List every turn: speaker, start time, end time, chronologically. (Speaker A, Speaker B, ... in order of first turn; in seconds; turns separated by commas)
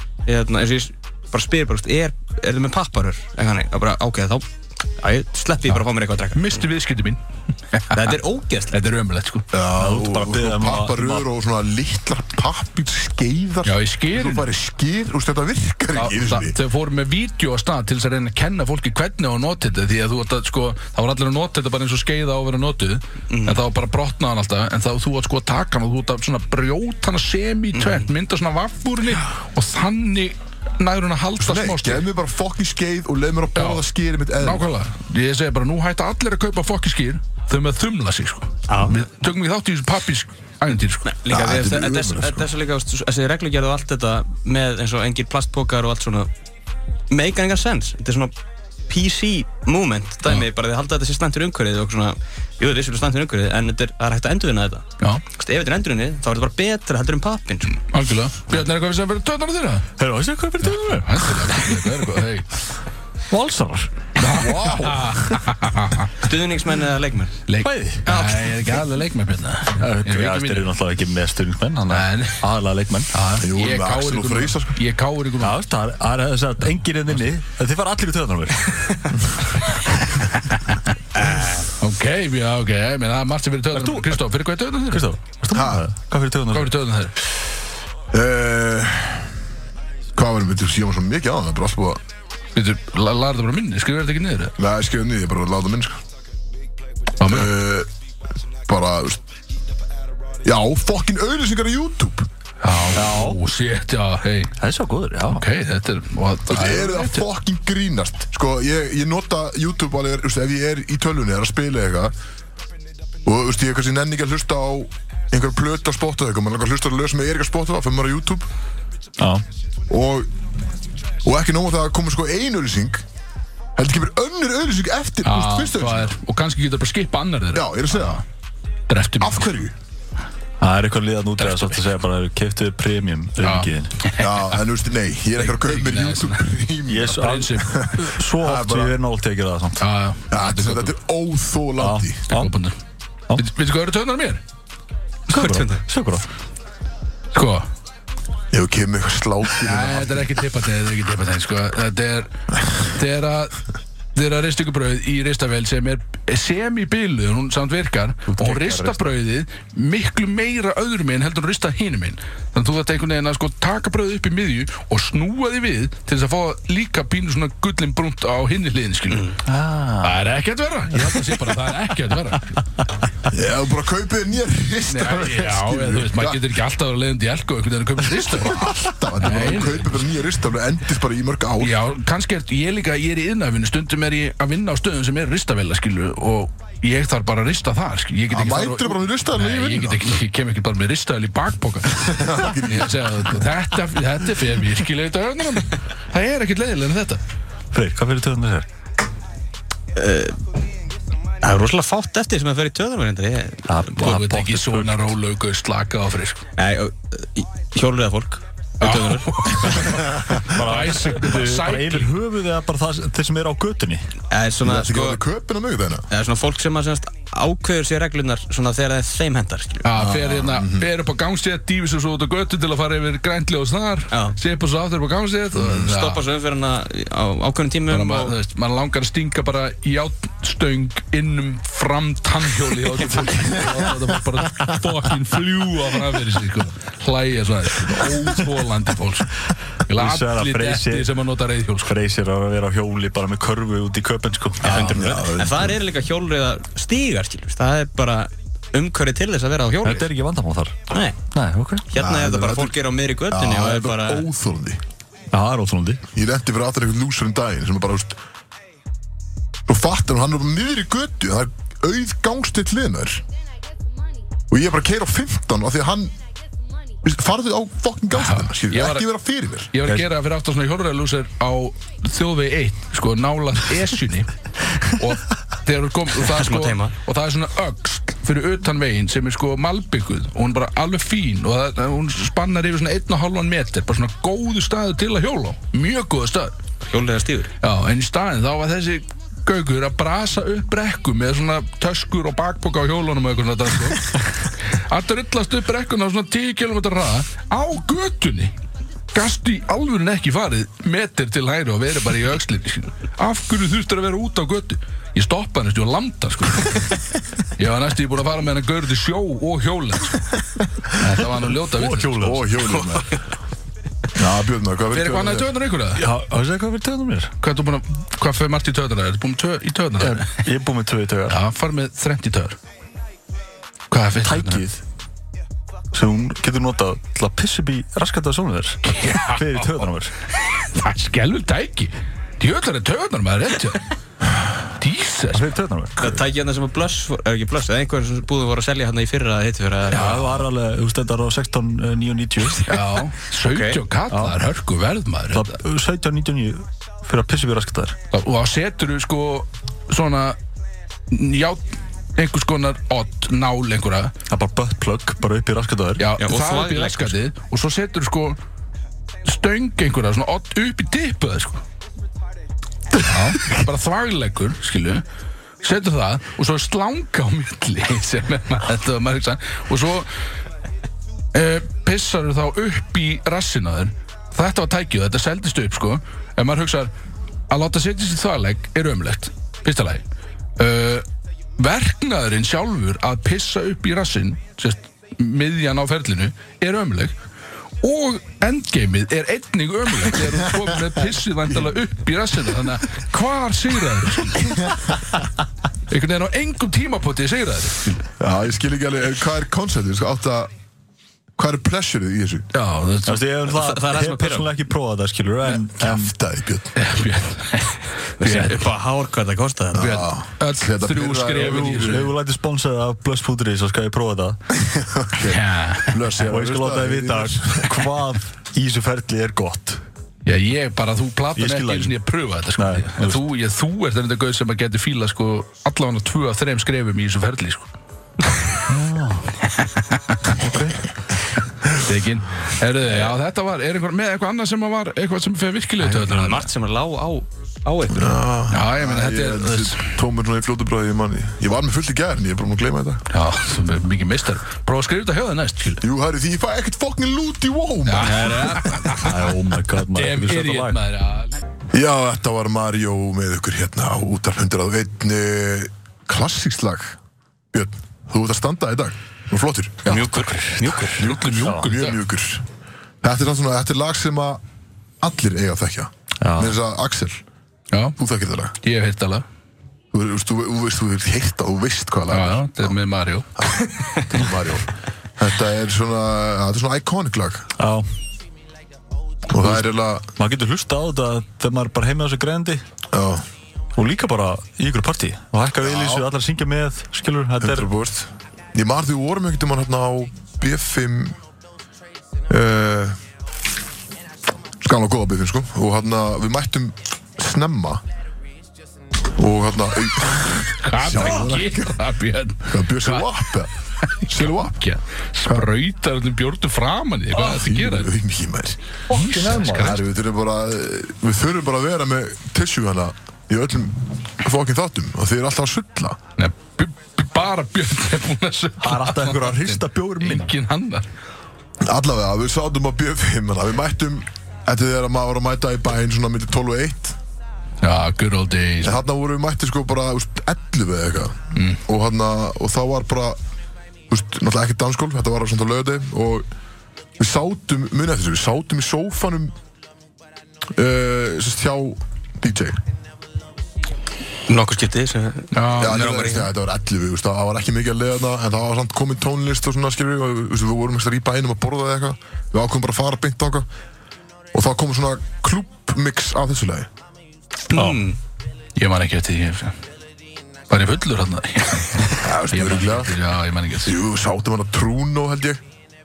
Speaker A: 0.3-4.5, Speaker A: 5.0-6.6, Speaker B: 6.3-7.2, Speaker B: 7.7-8.1, Speaker A: 7.9-8.7, Speaker B: 8.7-9.5, Speaker C: 9.5-16.6, Speaker D: 9.7-11.3, Speaker B: 13.6-14.5, Speaker B: 15.9-32.0, Speaker A: 23.3-23.6, Speaker A: 27.7-28.1, Speaker C: 31.4-34.6, Speaker B: 33.6-33.8, Speaker B: 34.4-41.1, Speaker A: 38.7-39.0, Speaker A: 41.0-46.3, Speaker C: 41.3-42.5, Speaker A: 47.1-48.3, Speaker A: 48.9-57.8, Speaker B: 57.9-59.9, Speaker D: 60.0-62.1, Speaker B: 60.6-62.6, Speaker D: 63.3-64.9, Speaker B: 64.2-66.1, Speaker A: 66.2-67.5, Speaker B: 67.5-70.7, Speaker D: 67.6-68.1, Speaker A: 68.1-68.7, Speaker D: 69.8-73.1, Speaker B: 71.9-72.5, Speaker B: 73.1-75.6, Speaker C: 73.4-74.8, Speaker D: 75.4-79.2, Speaker B: 80.3-80.9, Speaker A: 81.1-81.7, Speaker B: 81.8-85.1, Speaker D: 83.7-84.2, Speaker D: 84.9-86.8, Speaker C: 85.5-85.9, Speaker B: 86.5-87.1, Speaker C: 88.1-89.3, Speaker C: 90.1-92.0, Speaker B: 92.5-94.6, Speaker C: 94.6-96.0, Speaker B: 97.2-97.5, Speaker C: 97.2-97.9, Speaker C: 98.7-99.2, Speaker C: 100.4-102.3, Speaker B: 102.6-104.6, Speaker D: 102.9-103.4, Speaker D: 104.6-105.5, Speaker B: 105.3-107.3, Speaker C: 106.5-112.1, Speaker C: 113.2-118.5, Speaker D: 119.2-119.5, Speaker C: 119.9-120.3, Speaker C: 121.2-123.0, Speaker C: 123.8-126.1, Speaker B: 125.2-128.2, Speaker C: 127.5-128.2, Speaker B: 128.9-129.5, Speaker C: 129.2-129.7, Speaker D: 130.6-134.0, Speaker B: 131.4-131.8, Speaker B: 133.4-134.4, Speaker C: 134.2-139.0, Speaker B: 135.4-136.5, Speaker D: 136.9-139.8, Speaker B: 137.1-138.1, Speaker B: 139.8-140.9, Speaker C: 140.3-142.3, Speaker D: 141.8-142.6, Speaker B: 142.3-142.8, Speaker B: 143.3-144.4, Speaker A: 145.3-145.8, Speaker D: 145.3-146.3, Speaker B: 147.3-147.7, Speaker C: 148.5-150.3, Speaker B: 149.6-153.6, Speaker B: 154.1-169.4, Speaker D: 158.4-159.1, Speaker A: 169.1-169.4, Speaker D: 169.4-170.2, Speaker B: 170.0-172.6, Speaker C: 173.3-176.5, Speaker B: 174.9-180.0, Speaker C: 178.1-181.8, Speaker B: 181.6-197.2, Speaker C: 188.3-190.0, Speaker C: 191.9-193.4, Speaker D: 197.7-198.7, Speaker A: 199.9-200.4, Speaker A: 201.4-204.2, Speaker D: 203.7-205.1, Speaker B: 204.0-206.4, Speaker A: 206.6-210.0, Speaker B: 208.8-212.1, Speaker C: 209.9-210.4, Speaker D: 210.4-214.1, Speaker A: 214.3-215.2, Speaker C: 214.6-216.1, Speaker A: 216.1-219.8, Speaker B: 219.8-226.2, Speaker C: 219.9-220.9, Speaker A: 225.6-228.3, Speaker B: 227.9-241.9, Speaker D: 239.9-241.1, Speaker D: 241.8-245.3, Speaker A: 244.6-250.1, Speaker C: 244.6-245.8, Speaker D: 249.8-251.9, Speaker A: 250.9-251.2, Speaker A: 251.9-254.3, Speaker C: 251.9-254.8, Speaker D: 255.3-256.0, Speaker C: 256.1-258.2, Speaker C: 259.7-263.2, Speaker C: 264.5-266.1, Speaker C: 267.0-269.8, Speaker B: 268.2-269.1, Speaker B: 269.7-286.6, Speaker A: 276.2-276.9, Speaker A: 286.8-287.5, Speaker B: 287.6-298.5, Speaker B: 299.1-307.0, Speaker B: 307.6-310.3, Speaker B: 310.9-312.2, Speaker D: 311.2-313.1, Speaker C: 312.2-313.2, Speaker C: 314.1-315.5, Speaker B: 314.9-316.1, Speaker D: 315.9-317.3, Speaker B: 317.4-320.4, Speaker D: 320.0-321.4, Speaker B: 321.3-322.6, Speaker B: 323.9-324.6, Speaker D: 324.2-324.8, Speaker D: 325.9-330.1, Speaker B: 328.8-333.9, Speaker B: 334.7-335.5, Speaker D: 335.3-336.2, Speaker A: 336.0-340.5, Speaker D: 339.9-342.8, Speaker B: 342.6-345.6, Speaker A: 343.5-343.8, Speaker D: 344.1-344.4, Speaker D: 345.3-347.9, Speaker B: 348.1-350.4, Speaker B: 351.1-354.1, Speaker D: 354.3-356.1, Speaker B: 356.0-358.4, Speaker A: 356.2-357.2, Speaker B: 359.2-361.6, Speaker B: 363.0-365.0, Speaker B: 365.6-370.1, Speaker B: 371.3-376.9, Speaker B: 377.5-380.0, Speaker B: 380.6-381.1, Speaker B: 381.6-387.1, Speaker B: 387.8-394.7, Speaker B: 395.9-398.0, Speaker C: 398.2-400.5, Speaker C: 401.4-402.5, Speaker B: 402.5-403.2, Speaker D: 403.1-406.1, Speaker A: 403.4-404.5, Speaker C: 405.8-406.7, Speaker B: 406.7-408.7, Speaker A: 408.2-410.1, Speaker C: 409.7-412.1, Speaker B: 410.4-412.1, Speaker D: 411.4-414.4, Speaker C: 414.6-417.9, Speaker B: 415.2-416.0, Speaker D: 416.2-419.8, Speaker B: 420.3-427.7, Speaker D: 421.4-422.0, Speaker D: 422.6-423.2, Speaker D: 428.7-429.4, Speaker B: 429.4-430.5, Speaker D: 430.4-430.8, Speaker B: 431.7-436.5, Speaker A: 435.8-438.2, Speaker C: 437.9-443.0, Speaker B: 438.5-439.9, Speaker B: 443.1-445.8, Speaker C: 445.8-448.9, Speaker B: 447.9-449.4, Speaker A: 448.1-448.4, Speaker D: 448.9-450.8, Speaker B: 449.9-451.4, Speaker C: 451.7-457.0, Speaker C: 457.5-460.0, Speaker A: 459.9-461.1, Speaker D: 459.9-461.7, Speaker B: 460.8-462.0, Speaker C: 461.0-462.4, Speaker C: 463.0-464.4, Speaker C: 465.0-467.2, Speaker D: 466.2-466.6, Speaker B: 467.7-468.0, Speaker C: 468.0-468.5, Speaker B: 468.6-469.2, Speaker C: 469.9-472.7, Speaker B: 472.1-473.3, Speaker C: 473.4-477.5, Speaker D: 477.6-477.9, Speaker C: 479.3-480.1, Speaker D: 479.4-479.6, Speaker D: 480.1-482.6, Speaker C: 482.9-483.2, Speaker D: 483.8-487.7, Speaker C: 485.6-486.1, Speaker C: 487.4-491.1, Speaker C: 492.3-493.0, Speaker C: 494.6-497.8, Speaker C: 499.1-501.8, Speaker B: 500.6-503.2, Speaker C: 502.4-503.5, Speaker B: 503.9-507.9, Speaker C: 504.1-504.6, Speaker C: 507.1-508.6, Speaker D: 508.9-509.8, Speaker B: 508.9-509.8, Speaker C: 509.5-516.0, Speaker B: 516.2-520.9, Speaker D: 518.6-520.3, Speaker C: 521.6-527.0, Speaker B: 527.6-528.8, Speaker C: 528.6-533.2, Speaker B: 531.4-531.6, Speaker C: 533.9-536.2, Speaker C: 537.0-539.3, Speaker C: 540.5-542.6, Speaker A: 544.3-546.3, Speaker B: 545.3-545.9, Speaker C: 545.5-553.5, Speaker C: 554.3-556.7, Speaker A: 557.5-558.0, Speaker D: 557.5-557.8, Speaker B: 558.6-559.5, Speaker B: 560.5-563.8, Speaker C: 562.0-563.0, Speaker C: 563.6-565.4